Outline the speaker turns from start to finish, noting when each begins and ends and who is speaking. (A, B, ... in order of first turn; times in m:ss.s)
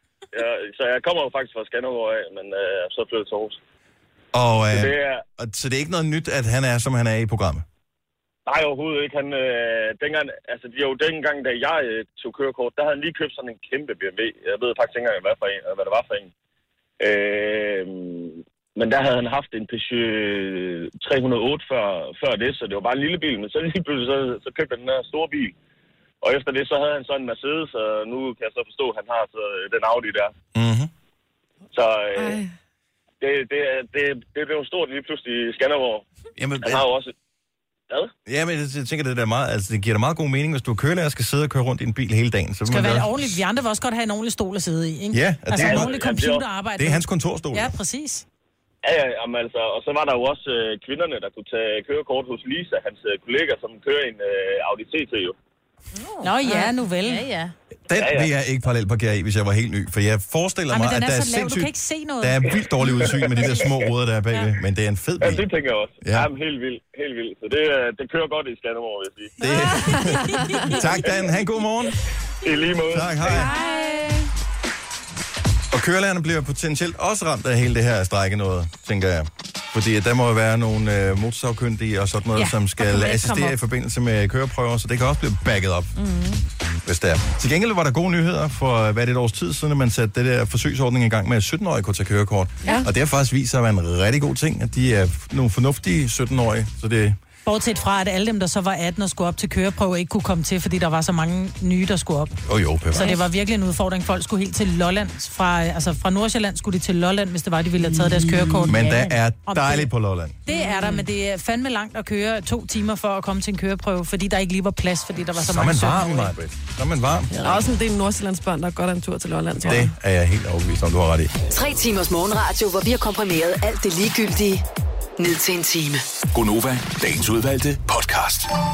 0:00.3-0:03.6 A
0:04.3-0:07.6 B
0:04.7-0:05.2 A
0:08.5-0:16.3 A
0:17.0-0:25.5 A
0:26.2-0:30.3 A
0:30.6-0:30.9 B
0:31.7-0:32.4 A
0:32.2-0:32.5 C
0:33.2-0:36.0 A
0:36.4-0:36.9 B
0:36.6-0:37.1 A
0:38.3-0:43.4 B
0:42.7-0:48.2 D
0:45.1-0:46.0 B
0:45.6-0:46.4 A
0:46.8-0:47.8 B
0:48.8-0:55.4 A
0:55.9-0:57.5 E
0:56.2-0:57.3 D
0:57.9-1:05.5 B
0:58.0-0:58.3 A
1:00.7-1:02.5 D
1:05.2-1:09.4 A
1:06.0-1:06.3 B
1:09.4-1:12.0 B
1:09.9-1:10.8 C
1:12.4-1:13.3 A
1:12.9-1:13.5 B
1:13.3-1:14.2 E
1:13.3-1:14.2 D
1:15.7-1:26.0 B
1:22.4-1:23.6 E
1:26.0-1:26.4 E
1:26.8-1:37.2 B
1:37.4-1:42.4 D
1:42.4-1:43.2 B
1:42.9-1:49.9 D
1:48.0-1:48.6 E
1:48.7-1:50.4 B
1:50.5-1:56.3 D
1:50.5-1:51.0 E
1:55.3-1:57.4 B
1:57.4-1:59.9 C
1:59.6-2:01.3 B
2:01.5-2:04.6 F
2:05.2-2:06.0 F
2:06.3-2:08.5 G